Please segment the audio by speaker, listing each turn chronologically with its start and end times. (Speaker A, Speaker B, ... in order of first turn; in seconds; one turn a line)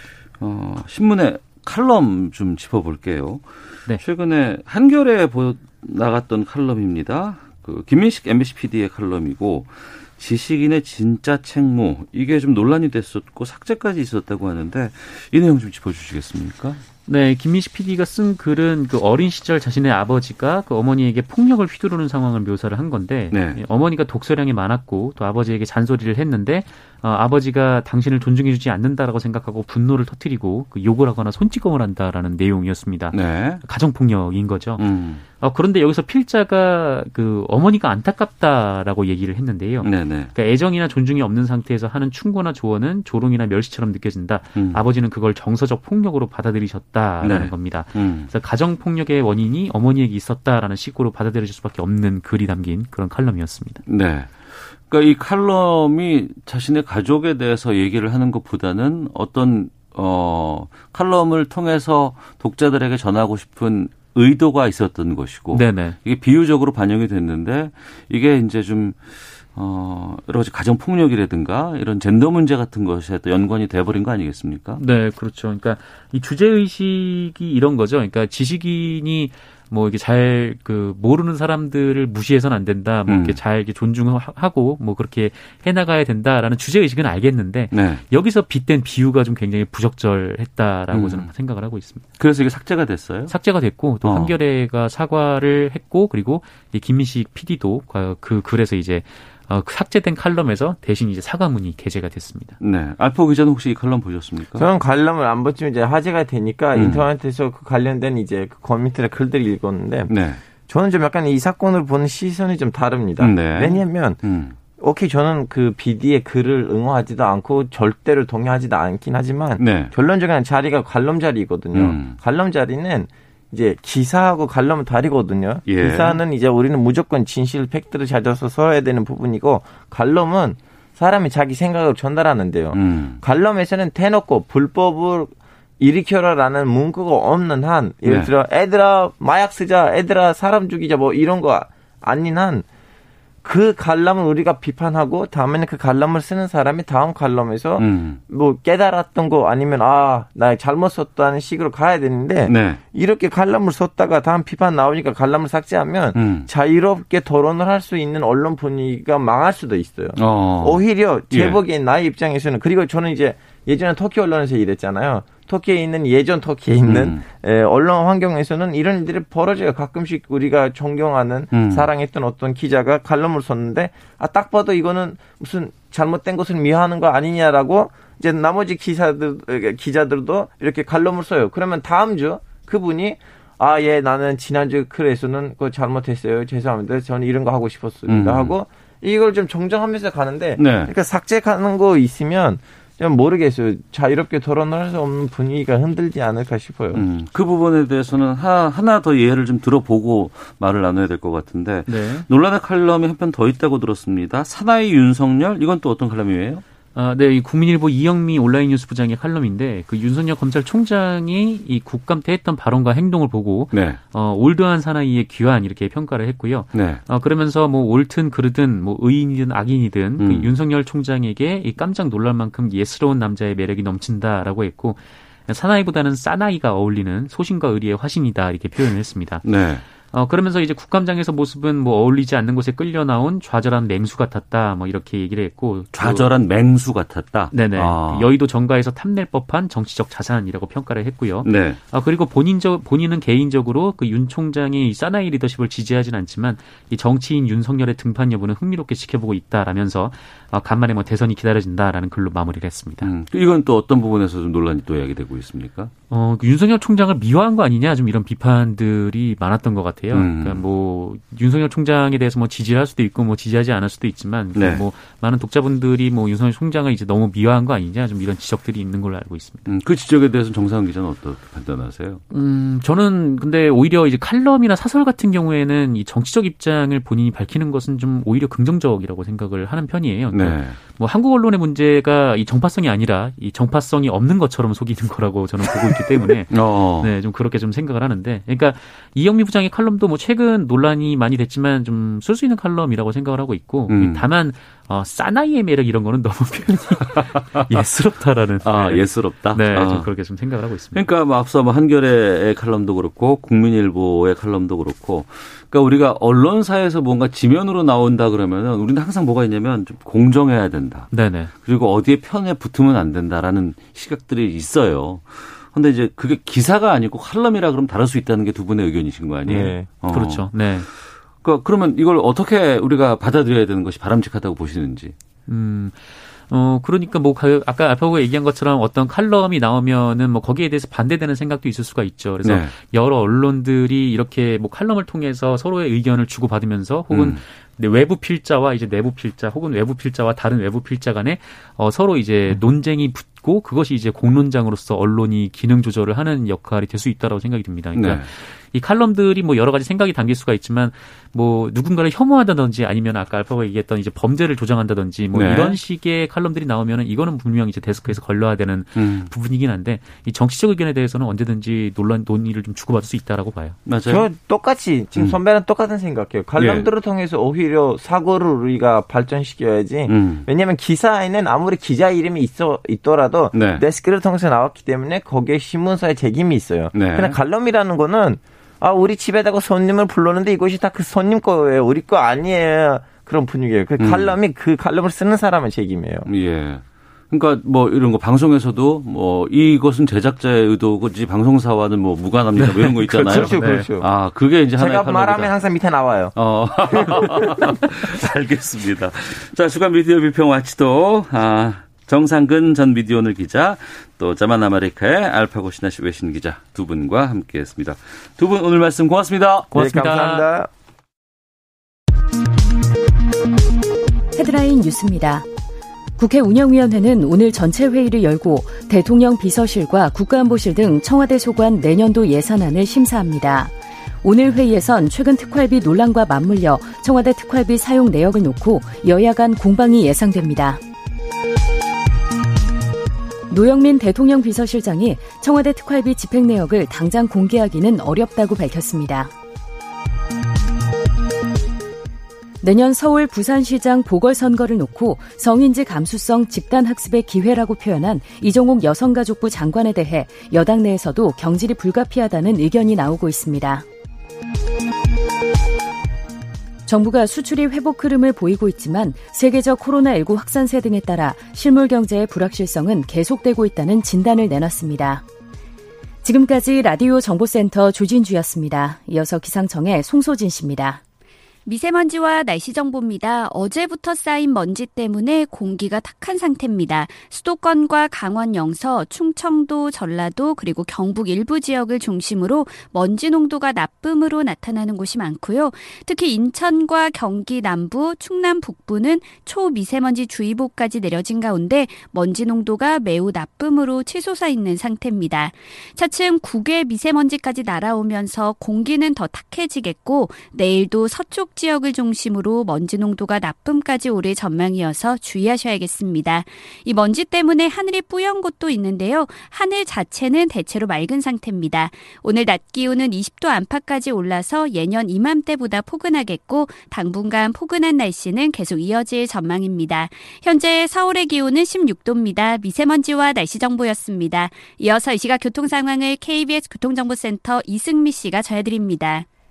Speaker A: 0.4-16.8
Speaker B: 17.1-53.8
Speaker A: 23.3-23.6
Speaker A: 33.1-33.6
Speaker A: 34.8-35.2
Speaker A: 39.8-40.3
Speaker A: 44.5-44.8
Speaker A: 47.2-48.3
Speaker A: 53.9-74.8
Speaker B: 65.5-66.0
Speaker B: 74.8-92.0
Speaker A: 83.1-83.4
Speaker A: 87.7-88.0
Speaker A: 90.9-91.3
Speaker A: 92.2-93.3
Speaker B: 93.3-102.6
Speaker A: 94.0-94.3
Speaker A: 102.6-104.7
Speaker C: 104.6-110.1
Speaker A: 106.8-107.1
Speaker A: 110.1-110.4
Speaker C: 110.7-114.2
Speaker A: 113.2-114.6
Speaker C: 114.8-142.6
Speaker A: 119.6-119.9
Speaker A: 121.8-122.2
Speaker A: 125.7-126.2
Speaker A: 132.7-133.2
Speaker A: 138.1-138.3
Speaker C: 143.4-197.0
Speaker A: 147.8-148.2
Speaker A: 152.5-152.8
Speaker A: 156.1-156.5
Speaker A: 160.2-161.6
Speaker A: 166.8-167.2
Speaker A: 171.5-171.9
Speaker A: 188.1-188.6
Speaker A: 190.6-190.9
Speaker A: 196.9-206.6
Speaker B: 201.9-202.3
Speaker B: 206.9-229.4
Speaker A: 213.7-214.0
Speaker A: 216.7-217.0
Speaker A: 220.2-220.5
Speaker A: 229.4-229.8
Speaker B: 230.1-236.3
Speaker A: 235.9-238.3
Speaker B: 237.5-253.1
Speaker A: 241.4-241.8
Speaker A: 253.0-255.9
Speaker B: 256.1-269.7
Speaker A: 260.1-260.6
Speaker A: 264.6-264.9
Speaker A: 269.6-272.2
Speaker B: 272.3-301.0
Speaker A: 280.3-280.8
Speaker A: 285.7-287.1
Speaker A: 293.9-294.2
Speaker A: 298.6-300.1
Speaker A: 300.9-311.1
Speaker B: 311.1-311.5
Speaker A: 311.6-325.1
Speaker C: 319.5-319.9
Speaker B: 320.1-320.9
Speaker B: 325.5-363.8
Speaker A: 332.4-332.8
Speaker A: 337.1-337.4
Speaker A: 347.9-348.3
Speaker A: 355.3-355.8
Speaker A: 358.9-359.3
Speaker A: 363.9-364.3
Speaker C: 364.1-386.3
Speaker A: 366.6-366.9
Speaker A: 370.1-370.5
Speaker A: 373.5-373.8
Speaker A: 376.9-377.4
Speaker A: 384.0-384.4
Speaker A: 386.3-395.5
Speaker B: 392.6-393.9
Speaker C: 393.1-394.1
Speaker C: 394.8-396.4
Speaker A: 396.4-409.8
Speaker C: 396.9-397.7
Speaker B: 409.7-410.5
Speaker C: 409.7-410.7
Speaker D: 414.3-415.5
Speaker D: 416.2-430.8
Speaker D: 433.5-439.3
Speaker D: 442.6-453.9
Speaker D: 456.9-465.2
Speaker D: 466.2-471.0
Speaker E: 471.6-529.3